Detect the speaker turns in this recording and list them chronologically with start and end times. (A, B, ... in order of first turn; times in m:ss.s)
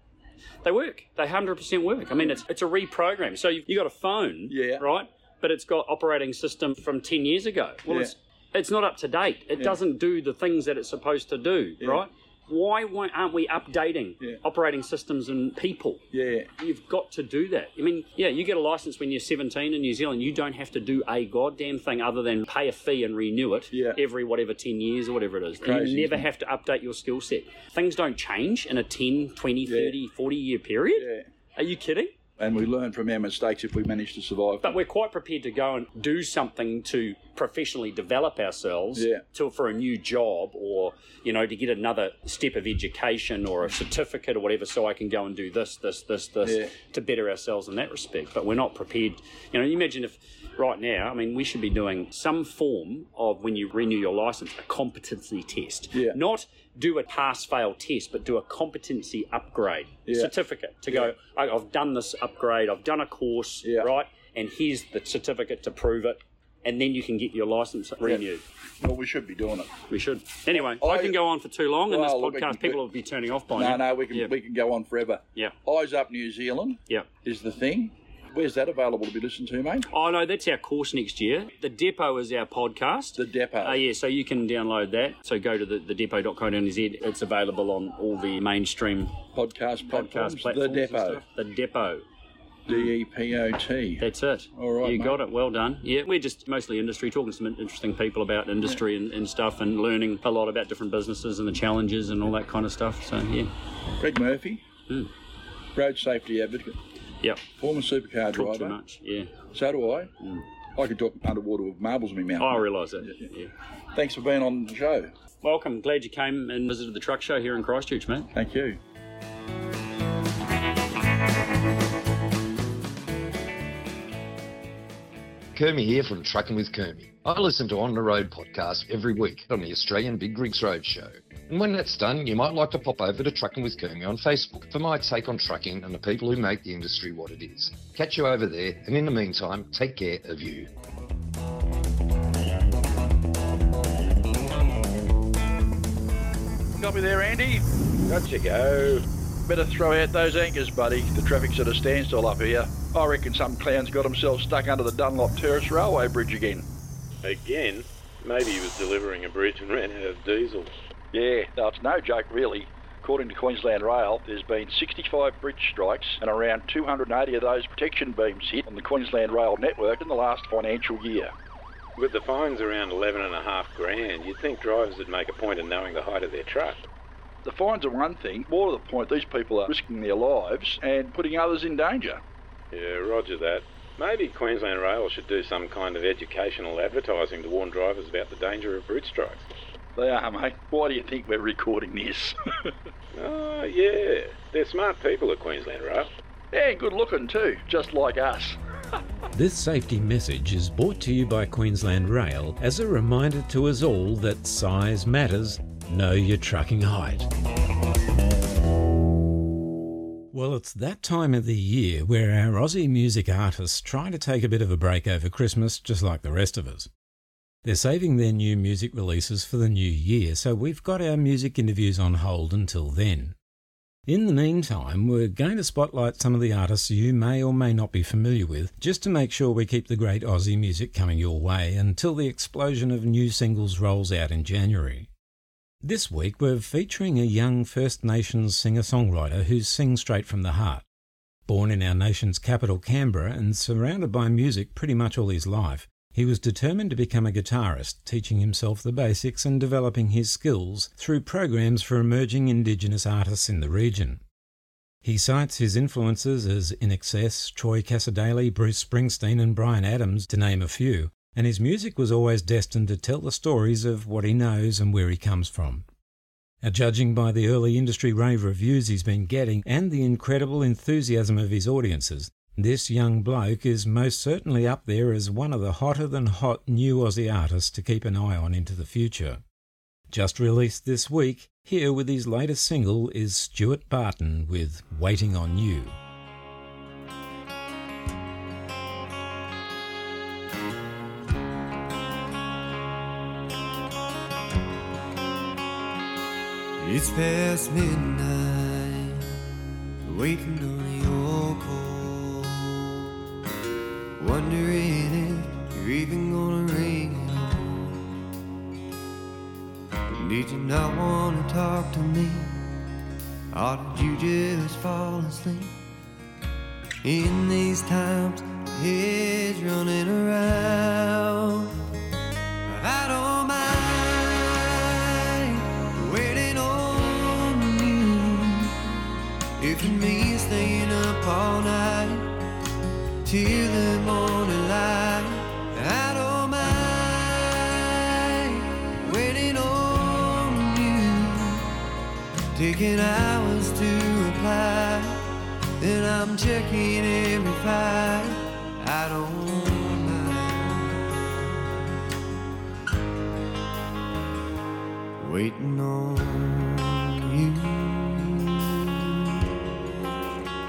0:00.6-0:16.0 A
0:04.5-0:04.8 B
0:07.9-0:08.1 B
0:16.1-0:16.5 B
0:16.6-0:32.1 A
0:23.7-0:24.0 B
0:25.6-0:26.3 B
0:29.6-0:30.0 B
0:31.0-0:31.3 B
0:32.4-0:34.8 B
0:34.6-1:08.4 A
0:38.9-0:39.2 B
0:46.4-0:46.7 B
0:55.9-0:56.2 B
1:00.0-1:00.3 B
1:00.9-1:01.1 B
1:03.6-1:03.9 B
1:08.8-1:09.8 B
1:09.9-1:14.3 A
1:10.5-1:11.2 B
1:11.9-1:12.8 B
1:13.5-1:19.9 B
1:19.9-1:29.2 A
1:23.2-1:23.8 B
1:29.3-1:31.2 B
1:29.9-1:32.0 A
1:32.7-1:34.0 B
1:34.0-1:43.5 A
1:34.5-1:35.2 B
1:44.0-1:44.6 B
1:45.7-1:46.8 B
1:47.6-1:48.8 B
1:48.3-1:49.3 A
1:49.5-1:50.1 B
1:50.8-1:53.2 B
1:52.4-1:53.5 A
1:53.9-1:55.1 B
1:55.4-1:58.3 A
1:58.3-1:58.8 B
2:05.5-2:20.7 C
2:26.8-2:27.6 B
2:28.0-2:29.0 D
2:29.4-2:36.6 B
2:37.2-2:40.7 D
2:41.1-2:51.3 B
2:52.0-2:56.8 D
2:57.4-3:02.2 B
3:02.7-3:09.4 D
3:10.0-3:12.3 B
3:13.1-3:16.1 D
3:16.5-3:18.6 B
3:19.3-3:27.3 E
3:30.3-3:36.9 E
3:37.6-3:43.3 E
3:44.1-3:55.1 E
3:55.8-4:00.8 E
4:01.5-4:14.2 E
4:15.0-4:25.8 E
4:26.6-4:39.4 E
4:40.1-4:46.0 E
4:56.8-4:59.2 F
5:00.0-5:02.8 F
5:04.2-5:08.0 F
5:10.1-5:12.6 F
5:13.5-5:15.7 F
5:17.0-5:21.7 F
5:22.7-5:28.7 F
5:29.6-5:32.4 F
5:33.2-5:41.7 F
5:42.5-5:45.2 F
5:45.8-5:51.4 F
5:55.2-5:59.3 F